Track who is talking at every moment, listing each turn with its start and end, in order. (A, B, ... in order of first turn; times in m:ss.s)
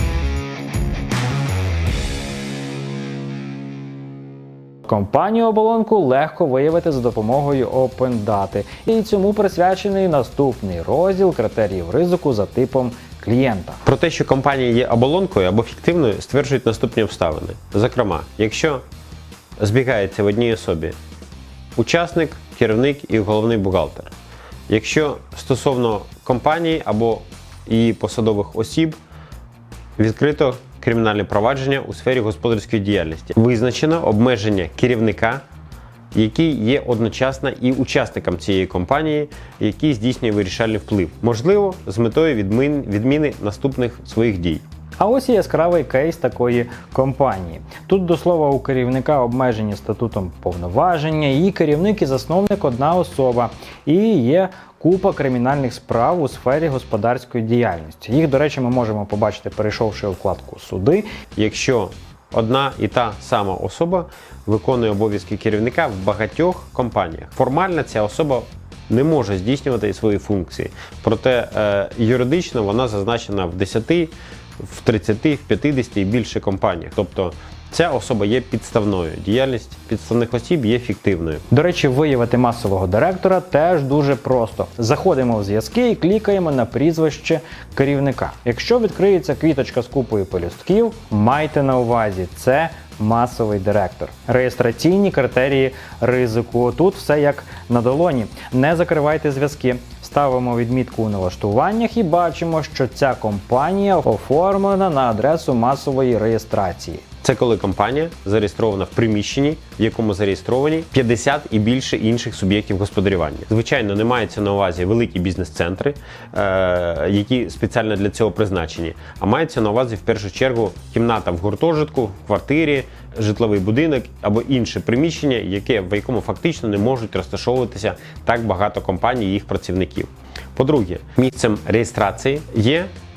0:04.9-0:13.8 A
0:13.9-0:18.8 B
0:19.6-0:21.0 B
0:21.8-0:24.1 B
0:24.7-0:29.0 B
0:30.0-0:35.4 B
0:36.1-0:44.6 B
0:45.0-1:01.1 A
1:01.3-1:21.4 B
1:21.5-1:47.0 A
1:47.2-2:12.9 B